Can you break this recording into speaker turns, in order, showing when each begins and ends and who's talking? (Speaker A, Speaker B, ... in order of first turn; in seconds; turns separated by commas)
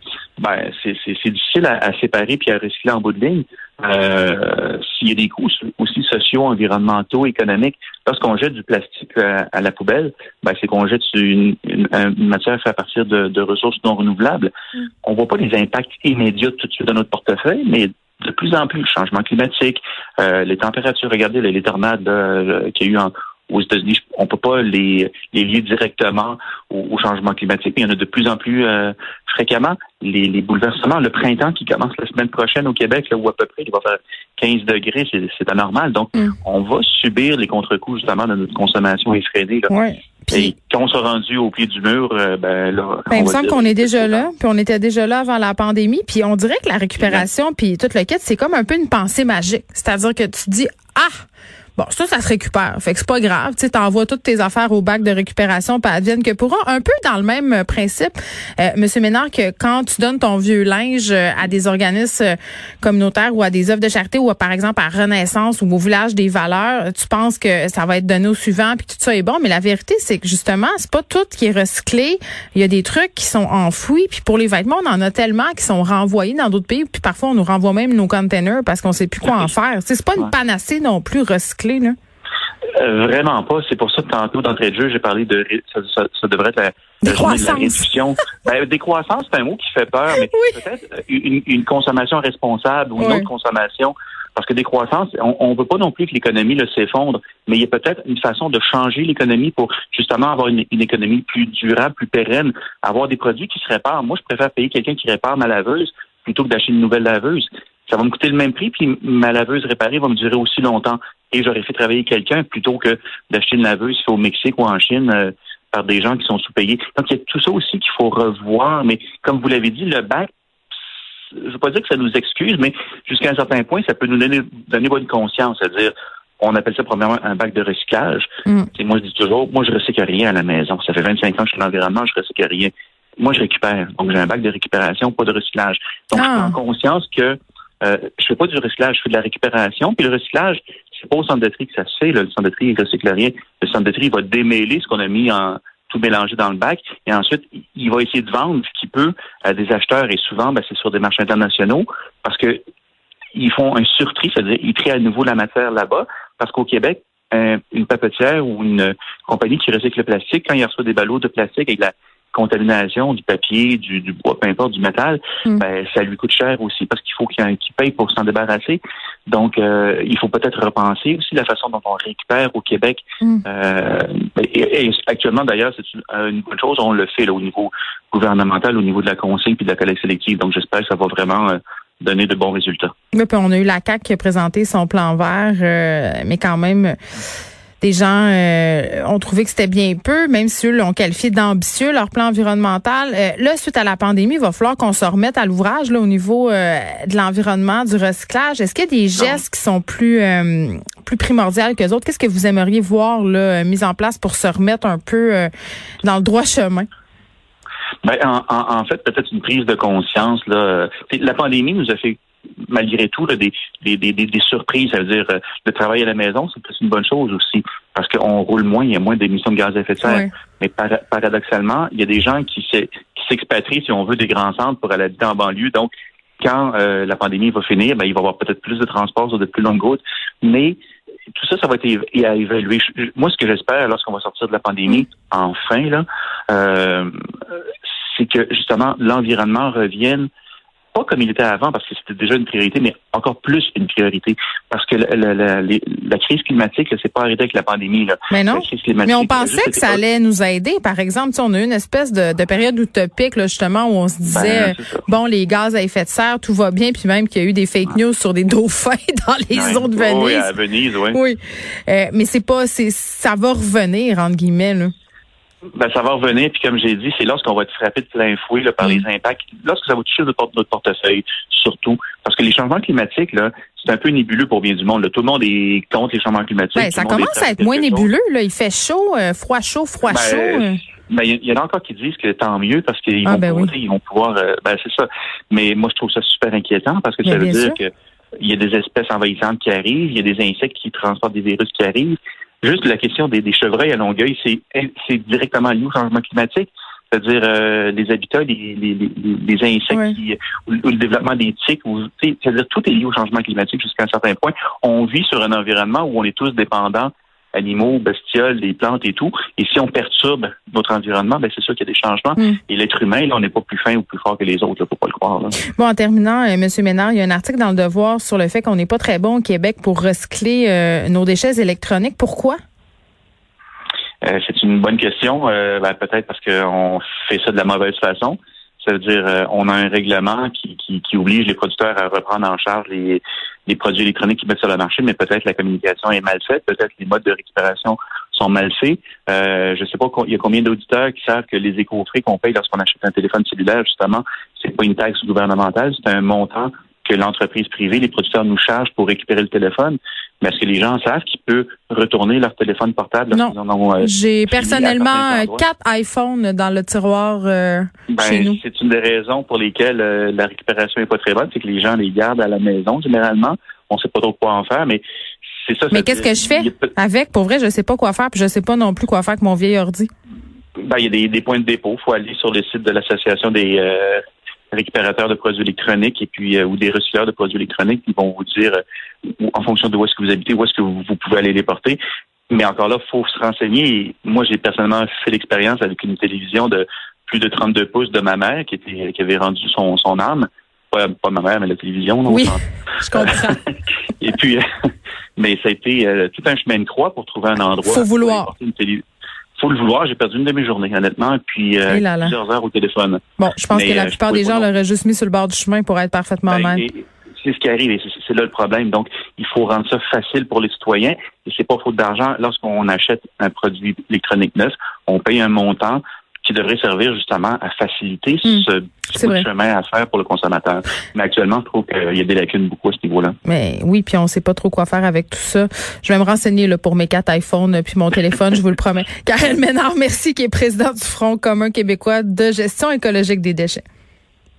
Speaker A: 0.4-14.5, Speaker A: 15.0-39.7, Speaker B: 39.7-40.5, Speaker A: 40.3-44.3, Speaker B: 43.1-81.9, Speaker A: 47.0-47.2, Speaker A: 82.8-120.3, Speaker B: 87.0-87.8, Speaker B: 90.2-90.6, Speaker B: 93.0-93.3, Speaker A: 121.3-152.6, Speaker B: 136.1-136.6, Speaker A: 153.3-182.9, Speaker B: 183.1-186.9, Speaker B: 187.8-205.5, Speaker B: 206.0-206.9, Speaker A: 208.0-230.8, Speaker B: 220.0-220.3, Speaker A: 231.3-237.1, Speaker A: 238.1-240.3, Speaker A: 240.9-250.0, Speaker B: 248.3-260.5, Speaker A: 254.3-255.1, Speaker A: 259.5-261.2, Speaker B: 261.1-264.9, Speaker A: 265.7-278.1, Speaker B: 276.7-280.8, Speaker A: 280.1-315.6, Speaker B: 283.2-283.7, Speaker B: 287.2-287.8, Speaker B: 299.9-300.1, Speaker B: 315.7-322.6, Speaker A: 324.2-355.6, Speaker B: 353.3-358.6, Speaker A: 358.1-365.0, Speaker A: 365.6-366.9, Speaker B: 365.9-370.1, Speaker A: 370.8-374.2, Speaker A: 374.7-378.8, Speaker A: 379.4-382.0, Speaker A: 382.5-392.6, Speaker B: 392.3-393.6, Speaker A: 393.1-393.6, Speaker A: 394.2-394.6, Speaker A: 395.4-399.0, Speaker B: 397.8-398.5, Speaker A: 399.6-403.2, Speaker B: 401.9-402.3, Speaker B: 403.4-406.8, Speaker A: 403.7-404.7, Speaker A: 406.5-423.3, Speaker B: 418.4-419.4, Speaker B: 423.4-433.8